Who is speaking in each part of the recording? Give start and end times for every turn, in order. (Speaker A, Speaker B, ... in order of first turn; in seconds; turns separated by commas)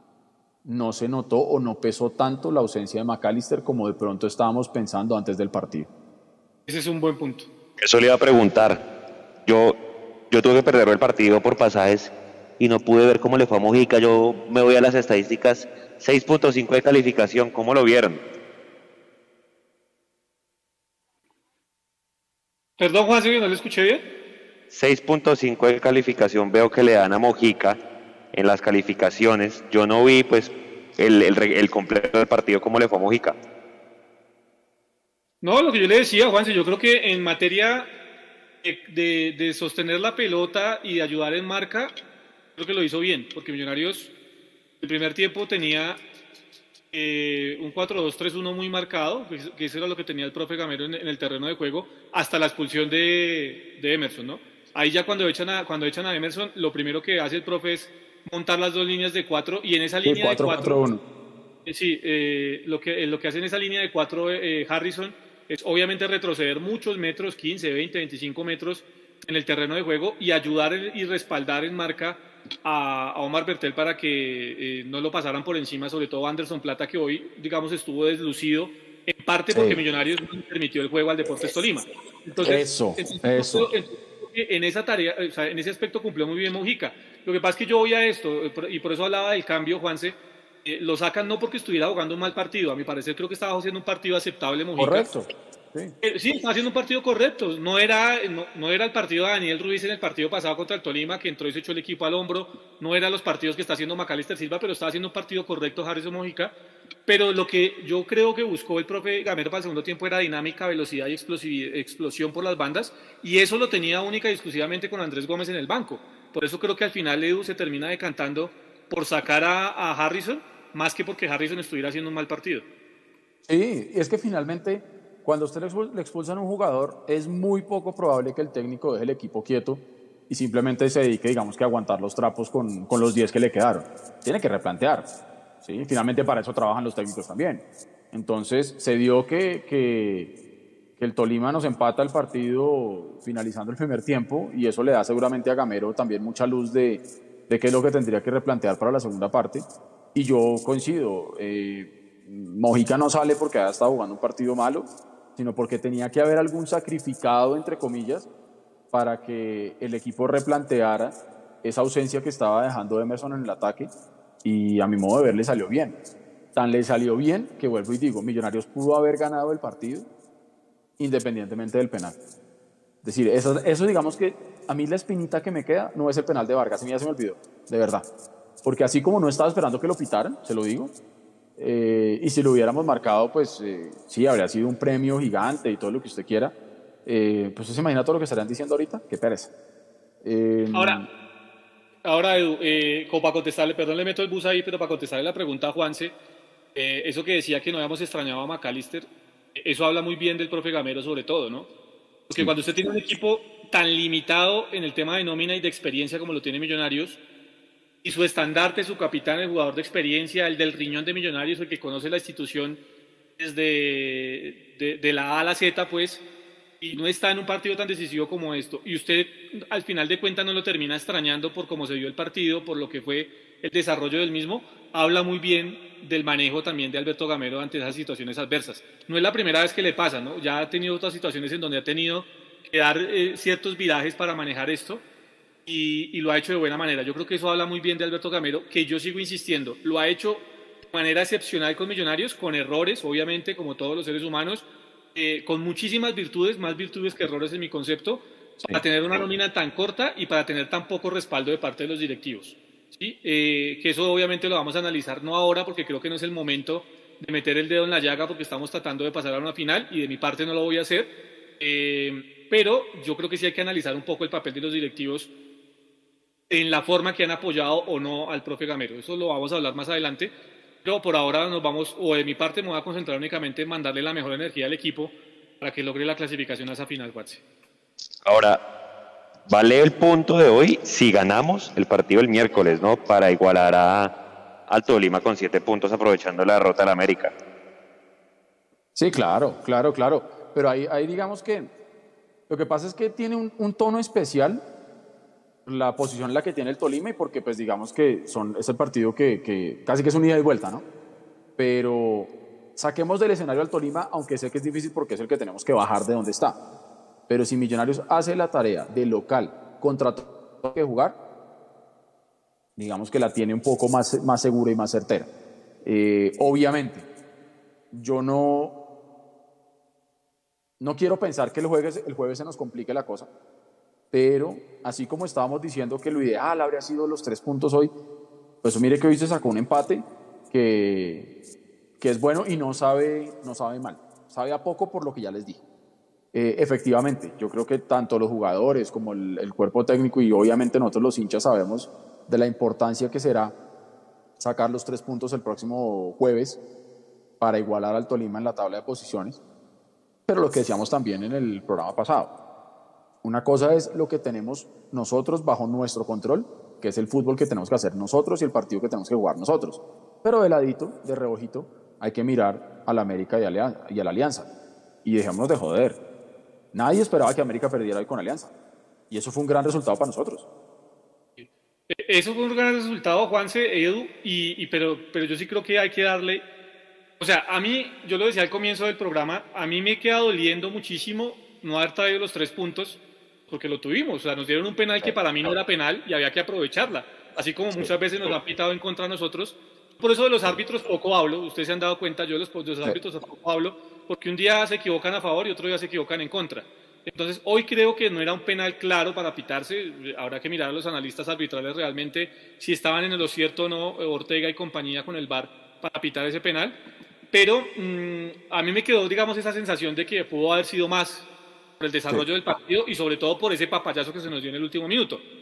Speaker A: 0.6-5.9, Speaker B: 6.7-7.5, Speaker C: 7.8-8.8, Speaker C: 9.4-9.8, Speaker C: 10.3-18.2, Speaker B: 22.8-24.1, Speaker C: 24.7-27.8, Speaker C: 28.3-33.4, Speaker B: 35.4-37.9, Speaker B: 38.6-41.9, Speaker B: 42.5-44.1, Speaker B: 44.8-46.0, Speaker B: 46.9-60.8, Speaker A: 60.0-61.0, Speaker B: 61.6-95.1, Speaker A: 79.5-79.8, Speaker A: 82.4-83.7, Speaker A: 94.8-95.9, Speaker B: 96.0-106.5, Speaker B: 107.0-122.6, Speaker A: 123.5-135.1, Speaker A: 135.6-140.3, Speaker A: 141.0-158.3, Speaker A: 158.9-163.9, Speaker A: 164.4-165.9, Speaker A: 166.5-170.1, Speaker A: 171.0-172.2, Speaker A: 173.0-178.1, Speaker A: 178.6-180.9, Speaker A: 181.6-189.5, Speaker A: 190.2-191.1, Speaker B: 190.7-191.0, Speaker B: 192.0-196.1, Speaker B: 196.7-201.7, Speaker B: 202.3-207.2, Speaker B: 208.0-212.8, Speaker B: 213.4-216.2, Speaker B: 216.8-235.0, Speaker B: 235.7-265.3, Speaker B: 266.5-277.4, Speaker C: 278.2-278.6, Speaker C: 279.5-284.1, Speaker C: 284.7-287.3, Speaker A: 288.9-291.7, Speaker A: 292.5-294.6, Speaker A: 295.6-300.8, Speaker A: 301.6-306.6, Speaker A: 307.3-311.2, Speaker A: 312.8-315.3, Speaker A: 315.8-317.1, Speaker A: 317.9-318.8, Speaker A: 320.8-323.3, Speaker A: 324.1-327.9, Speaker A: 328.6-331.3, Speaker A: 332.0-335.6, Speaker A: 336.3-343.6, Speaker A: 344.4-346.6, Speaker A: 347.4-349.4, Speaker A: 350.3-352.3, Speaker A: 353.2-364.5, Speaker A: 365.0-366.0, Speaker A: 366.7-368.5, Speaker A: 369.1-370.4, Speaker B: 371.4-376.4, Speaker B: 377.2-406.8, Speaker B: 407.3-411.3, Speaker B: 411.8-415.2